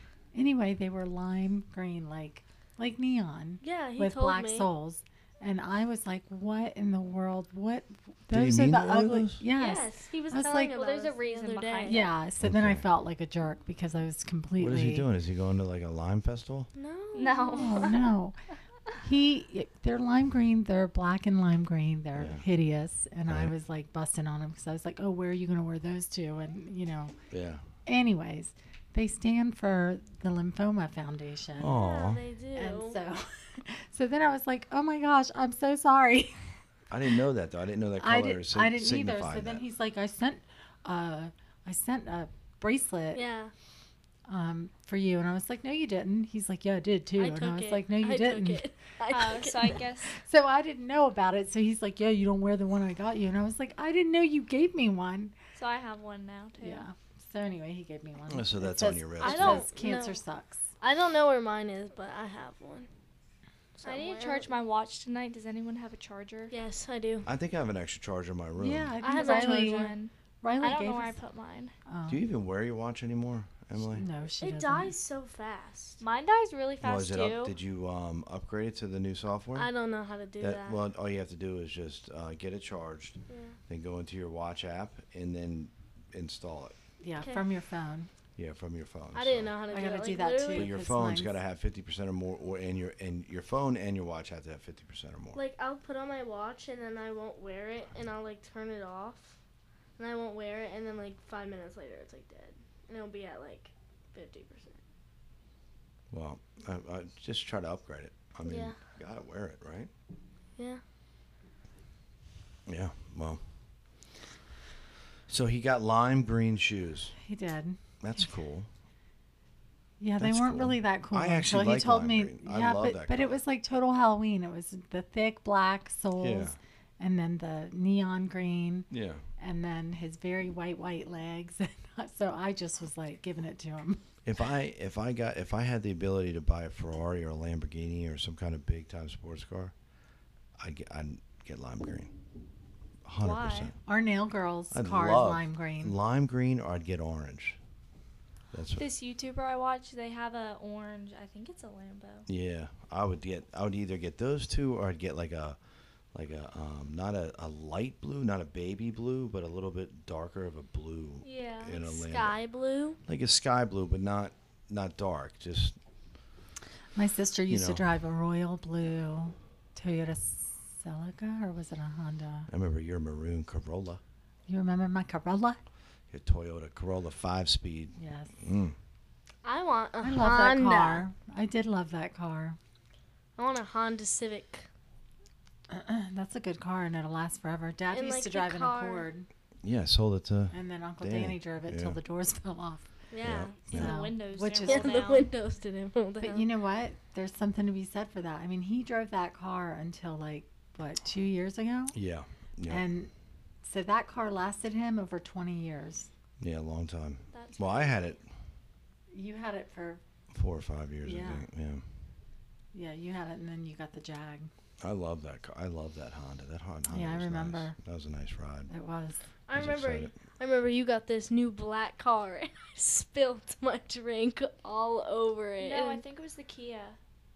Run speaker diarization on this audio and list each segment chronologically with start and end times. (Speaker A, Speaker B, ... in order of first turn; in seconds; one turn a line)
Speaker A: 0.3-10.7
Speaker B: 3.6-4.7
Speaker C: 8.3-9.4
Speaker B: 9.5-12.1
Speaker D: 10.7-12.1
Speaker A: 11.8-15.1
Speaker C: 12.4-12.8
Speaker C: 14.6-16.7
Speaker B: 16.8-18.0
Speaker D: 17.1-18.1
Speaker A: 17.5-18.4
Speaker A: 19.0-27.1
Speaker C: 22.1-22.4
Speaker C: 23.3-23.5
Speaker C: 27.3-27.6
Speaker A: 27.9-31.8
Speaker C: 31.6-32.2
Speaker B: 31.7-33.0
Speaker A: 32.5-36.4
Speaker C: 36.9-39.6
Speaker A: 38.0-43.2
Speaker B: 43.1-43.5
Speaker A: 44.3-48.6
Speaker B: 47.2-49.8
Speaker D: 49.1-50.1
Speaker A: 50.1-55.3
Speaker D: 55.5-56.9
Speaker A: 56.6-60.6
Speaker C: 58.3-59.7
Speaker B: 59.2-60.2
Speaker B: 60.8-62.9
Speaker B: 63.8-64.5
Speaker D: 63.8-66.5
Speaker B: 66.5-67.3
Speaker C: 67.2-68.9
Speaker A: 68.6-71.2
Speaker B: 69.0-69.9
Speaker D: 69.0-71.7
Speaker A: 71.9-72.2
Speaker C: 72.1-74.1
Speaker A: 73.9-74.9
Speaker B: 74.4-76.0
Speaker D: 76.0-77.5
Speaker C: 76.8-79.7
Speaker B: 79.5-80.8
Speaker C: 80.4-86.8
Speaker B: 83.3-83.5
Speaker A: 87.0-88.1
Speaker B: 87.2-87.4
Speaker C: 88.3-89.5
Speaker B: 89.1-90.7
Speaker A: 89.7-91.3
Speaker C: 90.5-95.4
Speaker B: 95.3-99.4
Speaker B: 100.0-104.8
Speaker C: 106.1-109.9
Speaker B: 108.5-108.8
Speaker C: 112.7-113.4
Speaker C: 115.3-117.1
Speaker A: 117.2-117.8
Speaker C: 118.0-118.7
Speaker A: 120.0-134.0
Speaker C: 120.2-123.4
Speaker C: 126.2-126.5
Speaker C: 128.9-129.2
Speaker C: 134.2-139.7
Speaker C: 140.6-142.1
Speaker C: 143.0-143.8
Speaker D: 143.2-143.7
Speaker A: 143.8-145.9
Speaker C: 144.7-147.6
Speaker C: 148.5-148.9
Speaker D: 148.8-152.3
Speaker C: 152.3-155.6
Speaker C: 156.1-162.4
Speaker D: 161.2-161.9
Speaker B: 161.8-163.0
Speaker C: 163.1-165.8
Speaker A: 166.9-172.5
Speaker C: 167.5-167.8
Speaker C: 172.5-174.0
Speaker A: 174.5-175.6
Speaker C: 176.1-178.8
Speaker A: 178.0-178.3
Speaker B: 179.4-181.0
Speaker A: 180.0-182.6
Speaker B: 183.4-184.7
Speaker A: 185.7-189.3
Speaker B: 187.9-189.1
Speaker C: 189.6-192.0
Speaker A: 190.5-192.9
Speaker B: 193.1-193.6
Speaker C: 193.2-193.9
Speaker A: 193.7-195.1
Speaker D: 193.7-195.3
Speaker B: 194.7-196.4
Speaker A: 196.2-201.9
Speaker C: 201.9-202.8
Speaker A: 202.7-203.1
Speaker A: 203.6-206.1
Speaker C: 206.4-208.2
Speaker D: 207.3-208.2
Speaker A: 209.1-210.0
Speaker C: 210.3-211.8
Speaker A: 211.0-211.4
Speaker A: 212.7-214.5
Speaker C: 214.8-218.7
Speaker A: 216.9-217.8
Speaker A: 218.7-219.2
Speaker B: 219.5-226.0
Speaker C: 219.5-220.1
Speaker D: 225.6-227.0